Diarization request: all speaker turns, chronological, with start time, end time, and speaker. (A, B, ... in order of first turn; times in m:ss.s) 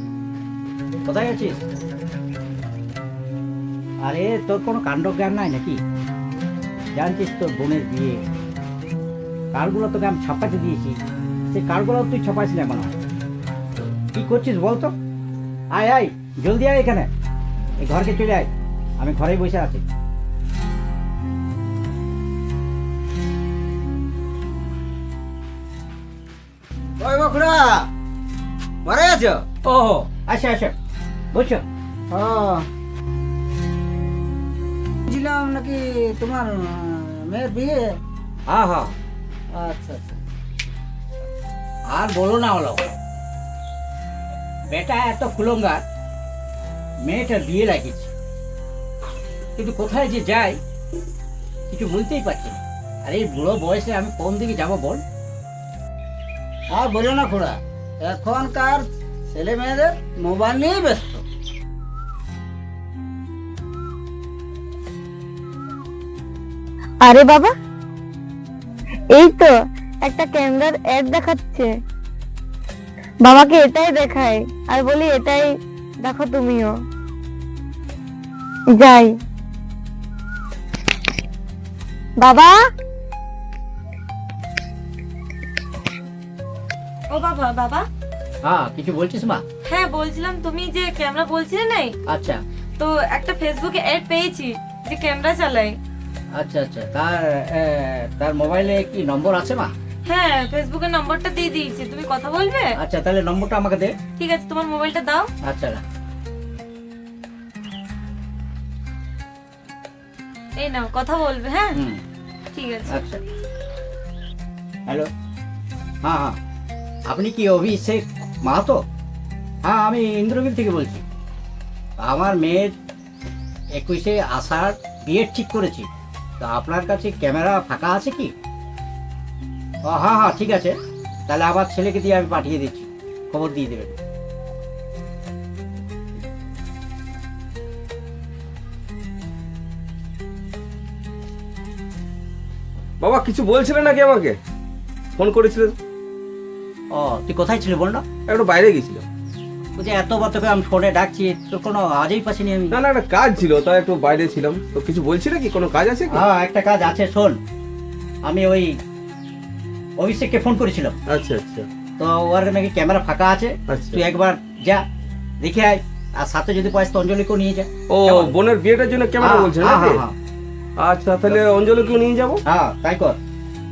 0:01.0-0:01.6 A
0:04.0-0:05.8 A
0:06.9-0:08.2 A
0:09.5-0:11.0 A
0:11.5-0:13.0 A
0:14.1-0:14.9 A
0:15.7-0:17.1 A
0:17.8-0:19.8 A
0:27.0-0:27.7 B
0:28.9-0:29.4 B
0:29.6-0:30.7 A
0:31.3-0:31.6 A
0:32.1-0:32.6 B
0:35.1-0:36.5 B
0:37.2-0:37.7 B
0:38.5-0:38.9 A
0:39.6-0:40.0 B
0:41.9-0:42.8 A
0:44.7-0:45.8 A
0:47.1-0:48.1 A
0:49.6-0:50.6 A
0:51.7-0:55.0 A
0:56.8-1:01.2 B
1:07.0-1:07.5 C
1:09.1-1:11.7 C
1:13.2-1:15.5 C
1:16.0-1:16.8 C
1:18.8-1:19.1 C
1:22.2-1:22.6 C
1:27.1-1:27.8 D
1:28.4-1:29.4 A
1:29.7-1:31.9 D
1:32.1-1:32.4 A
1:32.8-1:35.8 D
1:36.4-1:39.7 A
1:40.1-1:42.7 D
1:42.8-1:43.9 A
1:44.2-1:45.3 D
1:45.4-1:45.8 A
1:50.6-1:51.8 D
1:51.7-1:52.0 A
1:52.5-1:53.0 D
1:52.9-1:53.2 A
1:56.0-1:56.4 A
1:57.1-1:58.8 A
1:59.6-2:01.0 A
2:02.0-2:02.7 A
2:03.7-2:05.9 A
2:06.4-2:08.3 A
2:09.9-2:10.8 A
2:11.3-2:13.9 A
2:23.0-2:24.4 E
2:25.2-2:25.8 E
2:26.9-2:28.0 A
2:28.3-2:29.1 E
2:29.8-2:32.8 A
2:32.7-2:36.2 E
2:36.1-2:37.4 A
2:38.2-2:38.7 A
2:40.0-2:41.0 A
2:41.1-2:41.7 E
2:42.0-2:44.8 A
2:43.7-2:44.0 E
2:45.4-2:48.3 A
2:47.9-2:50.0 E
2:49.2-2:50.2 A
2:50.8-2:52.4 E
2:52.5-2:53.2 A